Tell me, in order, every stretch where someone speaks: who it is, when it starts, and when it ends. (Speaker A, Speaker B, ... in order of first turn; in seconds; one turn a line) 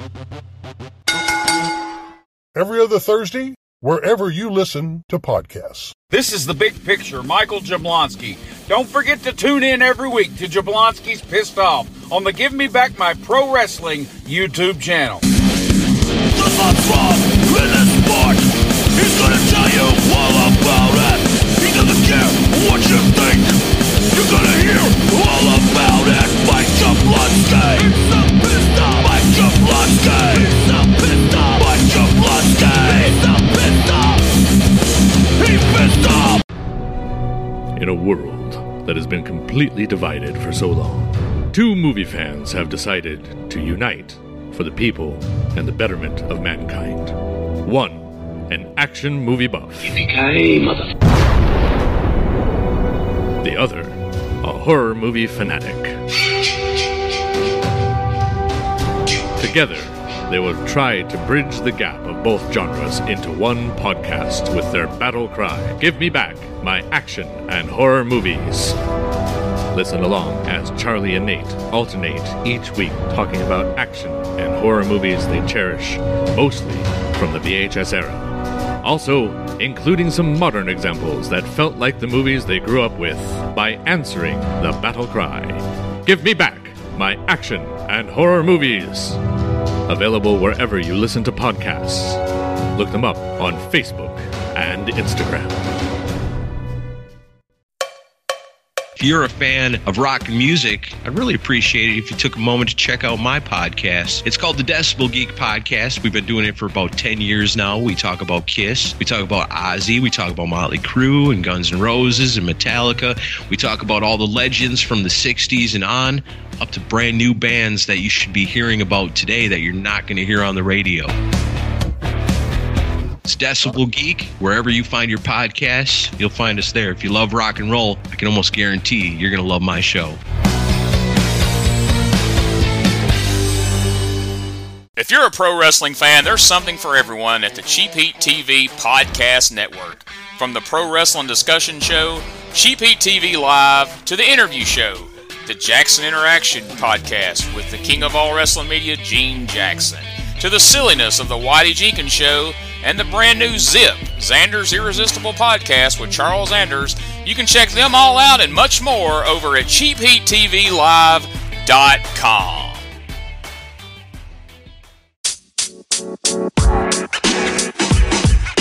Speaker A: 2.5-6.0
Speaker B: 6.1-15.2
Speaker C: 16.4-34.4
Speaker C: 35.4-36.4
Speaker D: 37.8-50.0
Speaker C: 50.1-50.7
Speaker D: 53.4-55.9
Speaker D: 59.4-68.8
Speaker D: 69.7-89.2
Speaker D: 89.9-92.2
Speaker D: 92.8-95.6
Speaker E: 99.0-121.1
Speaker E: 123.2-130.2
Speaker F: 135.0-162.8